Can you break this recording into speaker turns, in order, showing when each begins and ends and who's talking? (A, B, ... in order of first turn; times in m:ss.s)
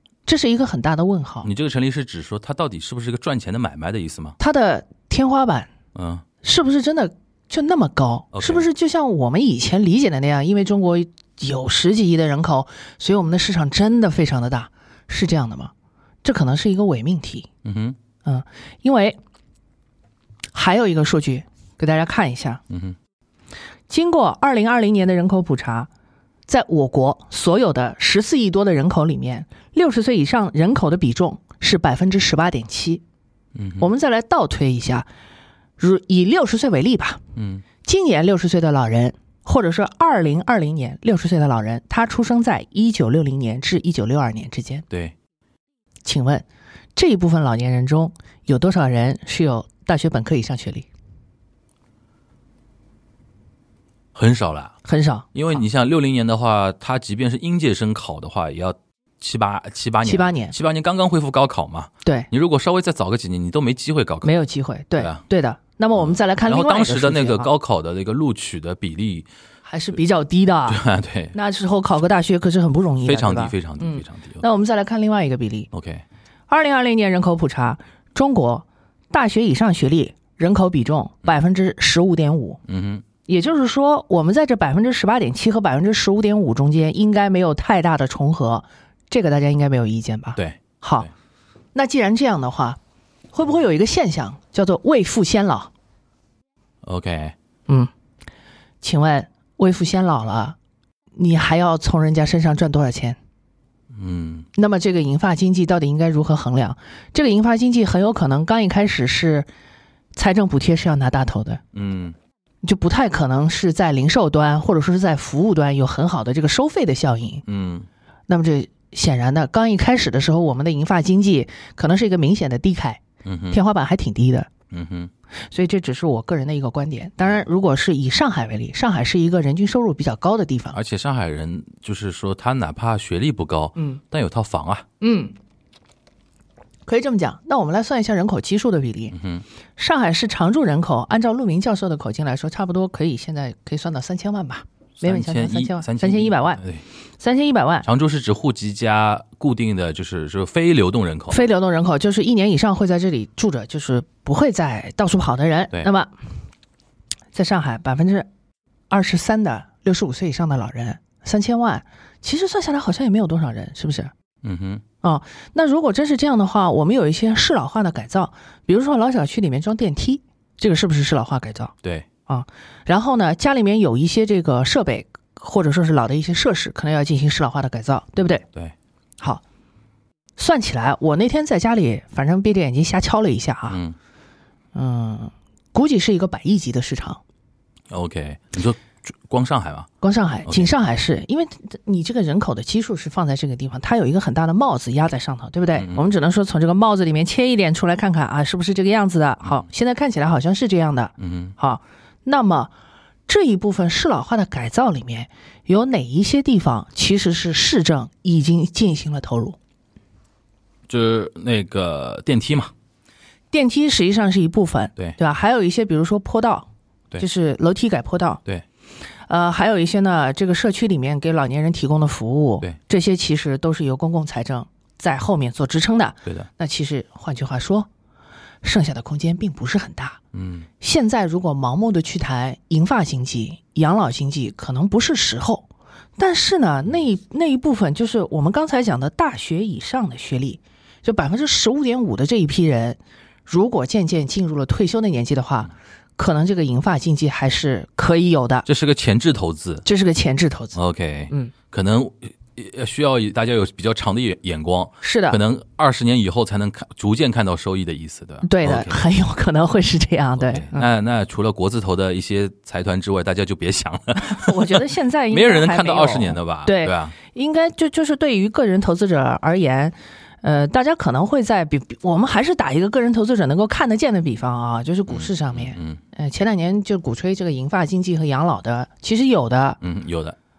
0:00.2-0:01.5 A
0:01.4-0:04.4 B
0:04.4-0:05.7 A
0:05.9-0:06.2 B
0:06.4-0:15.7 A
0:08.3-0:08.6 B
0:16.2-0:17.5 A
0:17.6-0:18.0 B
0:18.2-0:19.2 A
0:20.5-0:22.6 A
0:22.7-0:23.0 B
0:23.9-0:25.9 A
0:26.5-0:33.0 A
0:33.5-0:33.8 B
0:33.8-0:35.1 A
0:35.8-0:37.2 A
0:37.4-0:37.6 B
0:37.8-0:44.8 A
0:44.9-0:45.1 B
0:46.0-0:50.9 A
0:54.1-0:54.8 B
0:54.8-0:55.3 A
0:55.3-1:04.3 B
1:00.0-1:00.5 A
1:02.0-1:02.3 A
1:04.2-1:07.5 A
1:05.0-1:05.2 B
1:06.0-1:09.3 B
1:09.6-1:15.7 A
1:10.7-1:11.3 B
1:13.0-1:14.4 B
1:15.7-1:16.0 B
1:16.5-1:22.6 A
1:22.7-1:23.0 B
1:23.3-1:31.1 A
1:30.4-1:31.1 B
1:31.7-1:32.8 A
1:33.3-1:35.7 A
1:36.8-1:37.3 B
1:38.8-1:40.6 A
1:41.2-1:43.2 A
1:43.9-1:44.5 B
1:44.5-1:49.5 A
1:50.1-1:51.6 A
1:51.7-1:52.2 B
1:52.6-1:57.4 A
1:57.5-1:57.9 B
1:58.3-2:04.5 A
2:03.2-2:03.6 B
2:04.7-2:05.1 B
2:05.5-2:10.8 A
2:10.7-2:14.8 B
2:13.8-2:14.0 A
2:15.0-2:15.3 A
2:16.9-2:19.2 A
2:19.1-2:19.4 B
2:19.8-2:26.6 A
2:25.0-2:26.8 B
2:27.2-2:27.9 A
2:27.8-2:31.4 B
2:31.3-2:36.1 A
2:37.3-2:38.3 A
2:38.9-2:44.1 A
2:44.4-2:44.8 B
2:45.0-2:51.7 A
2:52.3-2:58.4 A
3:00.4-3:03.8 A
3:03.7-3:04.0 B
3:04.7-3:07.2 A
3:07.9-3:09.9 B
3:10.0-3:22.7 A
3:10.4-3:10.7 B
3:15.7-3:16.0 B
3:21.2-3:21.5 B
3:23.3-3:29.6 A
3:30.9-3:32.7 B
3:33.5-3:38.4 A
3:39.3-3:47.9 A
3:48.6-3:50.2 A
3:50.3-3:50.7 B
3:50.8-4:08.7 A
4:08.6-4:09.8 B
4:09.8-4:10.8 A
4:10.7-4:19.0 B
4:15.0-4:15.4 A
4:18.4-4:20.9 A
4:20.4-4:27.2 B
4:24.2-4:39.8 A
4:35.1-4:36.0 B
4:39.8-4:40.4 B